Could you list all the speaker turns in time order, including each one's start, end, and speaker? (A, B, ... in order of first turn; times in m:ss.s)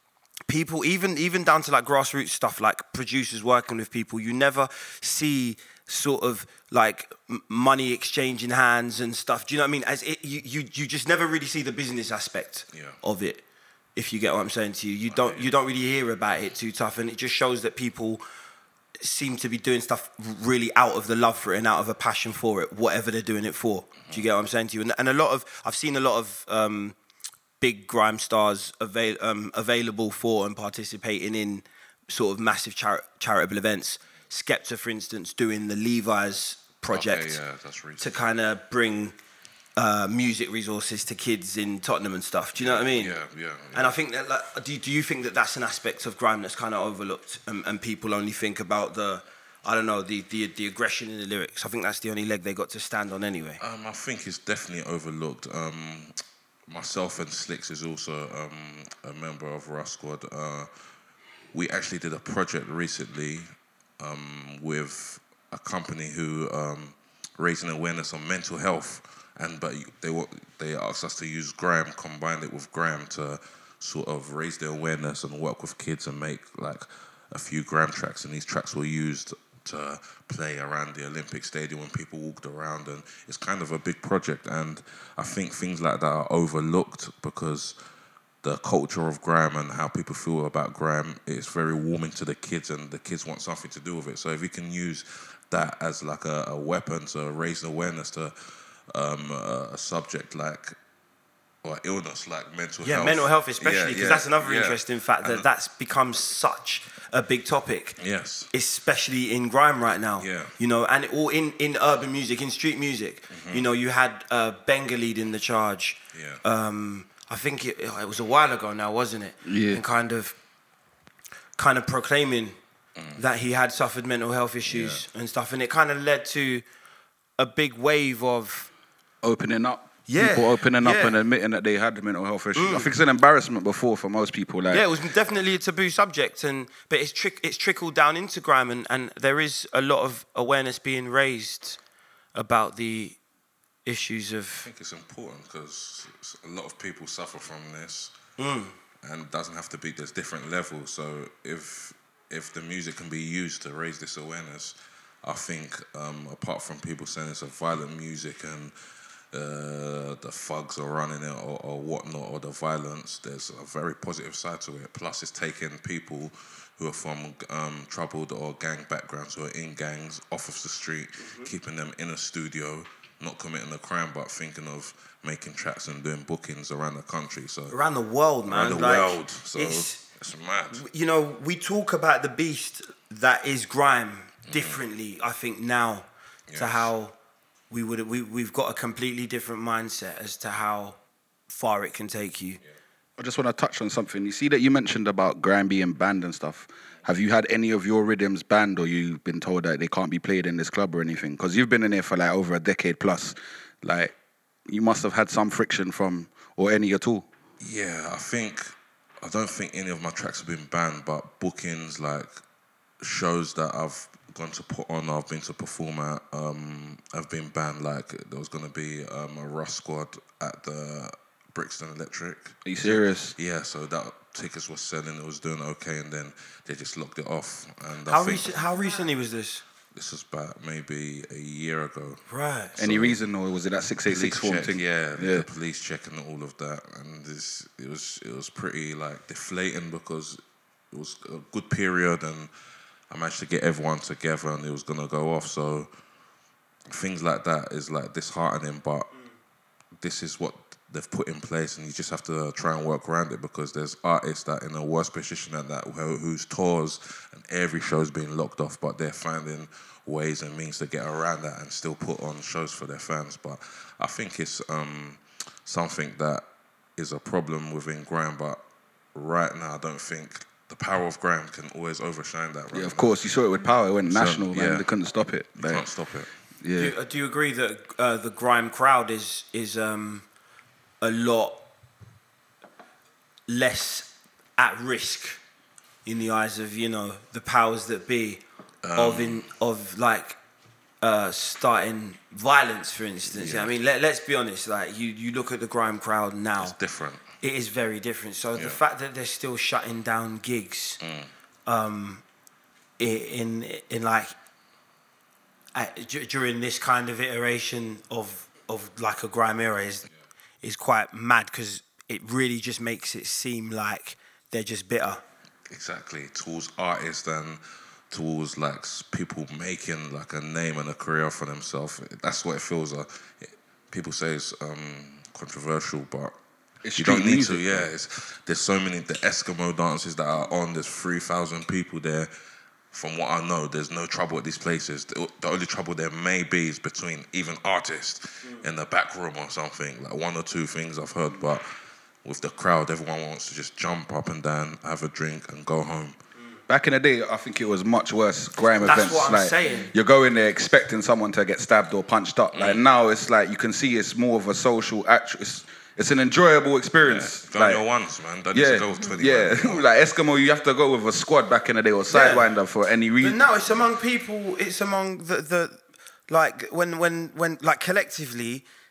0:00.5-0:13.4 A
0:12.7-0:13.0 B
0:14.0-0:18.2 A
0:15.1-0:15.5 B
0:19.0-0:27.0 A
0:27.6-0:37.4 A
0:36.9-0:38.1 B
0:38.0-0:39.2 A
0:39.8-0:43.1 A
0:42.6-0:44.0 B
0:43.7-0:53.6 A
0:53.6-0:56.2 B
0:56.7-1:00.7 B
1:01.5-1:03.5 B
1:04.0-1:27.8 B
1:28.4-1:38.3 B
1:38.9-1:40.8 B
1:41.6-1:45.5 B
1:42.8-1:48.0 A
1:48.0-1:48.5 B
1:48.5-2:00.4 A
1:50.2-1:50.5 B
1:53.3-1:53.6 B
1:56.1-1:56.4 B
1:59.5-1:59.8 C
2:01.6-2:02.6 A
2:03.2-2:06.6 A
2:04.7-2:05.0 B
2:07.4-2:08.7 A
2:09.2-2:14.8 C
2:10.1-2:11.2 A
2:12.6-2:12.9 A
2:14.7-2:21.8 A
2:22.4-2:23.2 A
2:23.8-2:24.7 A
2:24.6-2:28.1 B
2:28.4-2:28.7 A
2:29.0-2:38.7 B
2:39.3-2:57.8 B
2:57.7-3:00.0 A
2:58.5-3:00.8 B
3:00.7-3:07.1 A
3:04.5-3:04.8 B
3:06.5-3:06.9 B
3:07.7-3:11.0 A
3:11.5-3:12.6 A
3:13.2-3:24.1 C
3:24.7-3:27.3 C
3:27.6-3:32.3 B
3:33.0-3:48.5 B
3:42.6-3:43.4 C
3:48.1-3:49.6 A
3:50.0-3:52.2 B
3:52.3-3:52.7 A
3:52.7-3:53.2 B
3:52.8-3:55.5 C
3:54.1-4:00.4 B
4:00.9-4:02.5 B
4:03.1-4:05.9 B
4:06.9-4:09.1 B
4:10.0-4:26.4 B
4:27.0-4:28.6 B
4:29.2-4:33.2 B
4:32.7-4:35.8 C
4:34.1-4:34.9 B
4:35.6-4:36.3 B
4:36.6-4:37.0 C
4:36.8-4:40.2 A
4:41.0-4:41.7 A
4:43.5-4:45.4 A
4:46.1-4:48.4 A
4:48.8-4:49.4 B
4:49.0-4:50.4 A
4:51.0-4:56.8 A
4:53.3-4:53.7 B
4:56.6-4:57.2 B
4:57.4-5:01.0 A
5:01.0-5:01.3 B
5:01.7-5:02.2 A
5:03.0-5:04.3 A
5:05.7-5:10.1 A
5:10.6-5:15.2 A
5:15.7-5:17.6 B
5:18.1-5:26.3 B
5:26.8-5:27.9 C
5:27.0-5:32.3 B
5:32.9-5:41.7 B
5:42.2-5:46.2 B
5:46.7-5:57.8 C
5:48.8-5:49.9 A
5:52.5-5:52.8 B
5:57.0-5:59.8 B
5:58.5-6:03.4 C
6:02.1-6:02.5 A
6:03.2-6:08.6 A